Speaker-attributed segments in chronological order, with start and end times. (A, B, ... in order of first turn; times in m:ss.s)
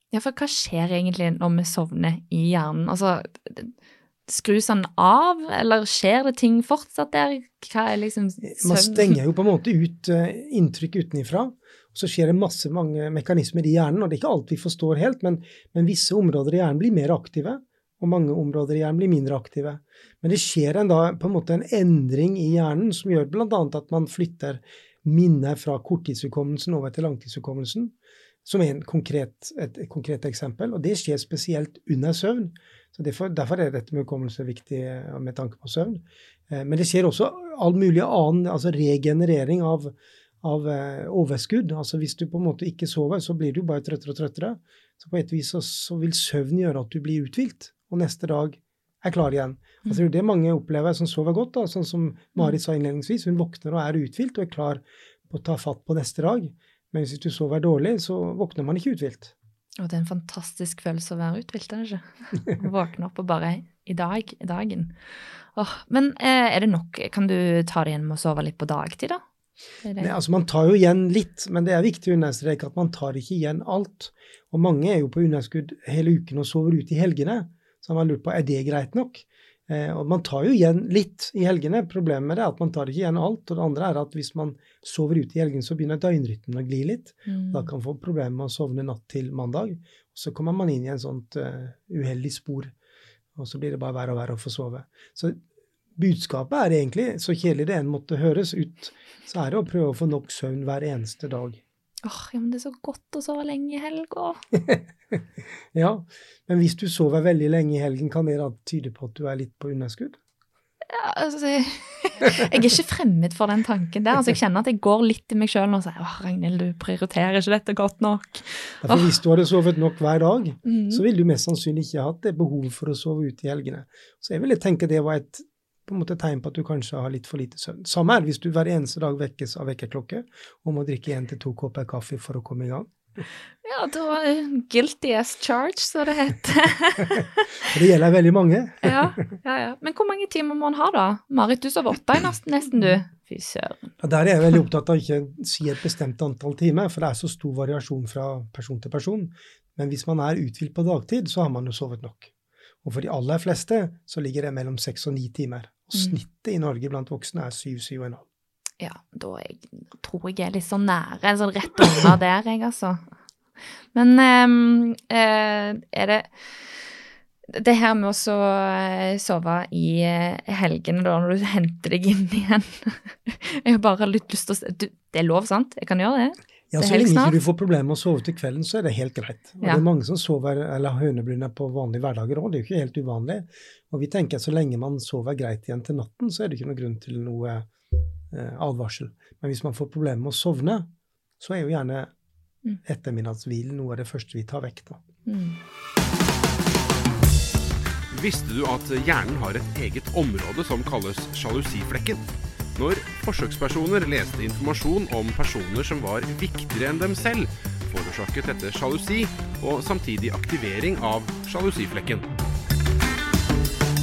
0:00.1-0:03.7 A
0:04.3-0:09.2 A
0:08.4-0:59.3 B
0:59.8-1:05.0 A
1:05.5-1:09.2 A
1:09.8-1:10.1 A
1:10.0-1:32.7 B
1:27.2-1:27.7 A
1:33.3-1:35.4 B
1:36.0-1:41.6 B
1:42.0-1:44.4 A
1:44.6-1:44.8 B
1:45.7-1:50.2 B
1:50.9-1:59.0 A
1:58.8-2:13.2 B
2:00.6-2:01.0 A
2:13.6-2:17.7 A
2:17.7-2:19.1 B
2:18.8-2:23.8 A
2:24.0-2:32.3 B
2:32.8-2:38.2 B
2:38.8-2:43.0 A
2:43.9-2:46.7 A
2:47.5-2:57.4 A
2:56.7-3:07.7 B
3:08.3-3:10.9 B
3:11.4-3:12.1 B
3:12.8-3:15.0 B
3:15.2-3:15.6 A
3:18.1-3:22.2 C
3:22.8-3:32.3 C